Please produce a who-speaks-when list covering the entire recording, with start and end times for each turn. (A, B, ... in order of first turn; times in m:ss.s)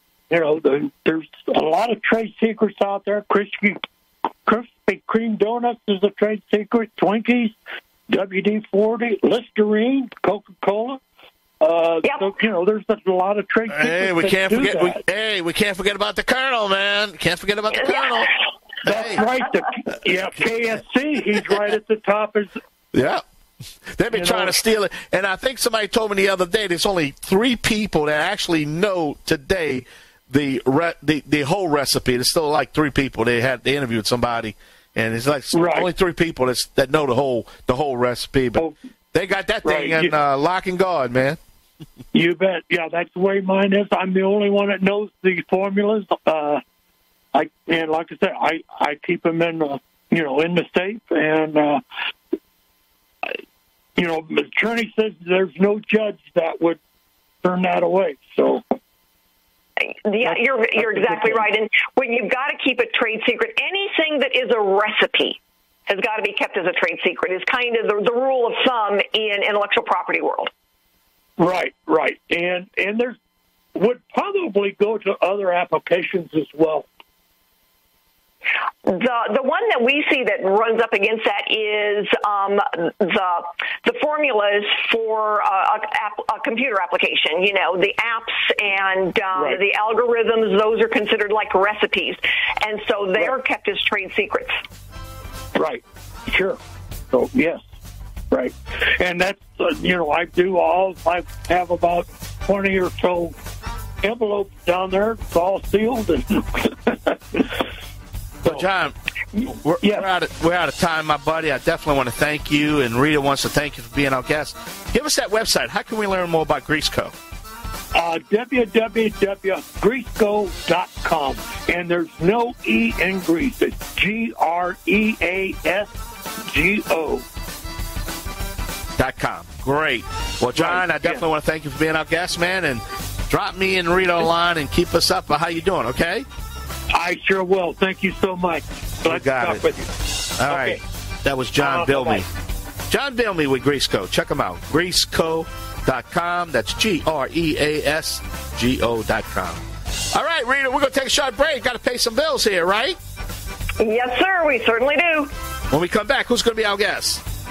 0:00.3-0:03.8 A
0:04.4-0:07.6 A
0:08.1-0:11.0 A
0:11.6-0:15.0 A
0:13.7-0:19.2 B
0:17.7-0:18.1 C
0:18.8-0:22.6 A
0:22.9-0:23.2 B
0:23.9-0:41.4 B
0:24.1-0:24.5 A
0:35.5-0:35.9 A
0:39.6-0:40.1 A
0:42.1-0:46.6 A
0:47.3-0:51.8 A
0:54.0-0:56.8 A
0:57.4-0:58.6 A
1:00.0-1:10.5 C
1:00.2-1:01.4 A
1:11.4-1:13.1 A
1:13.7-1:16.8 A
1:18.8-1:34.6 C
1:35.5-1:36.6 A
1:37.1-1:37.6 A
1:38.3-1:43.3 A
1:44.0-1:47.7 A
1:48.4-1:57.1 B
1:49.4-1:50.0 A
1:57.9-2:07.2 A
2:09.0-2:16.2 B
2:10.5-2:11.2 A
2:16.9-2:19.9 A
2:19.0-2:19.6 B
2:20.4-2:22.3 B
2:20.4-2:20.8 A
2:21.6-2:22.2 A
2:22.9-2:29.6 B
2:30.1-2:33.0 B
2:33.8-2:35.3 C
2:35.7-2:37.2 B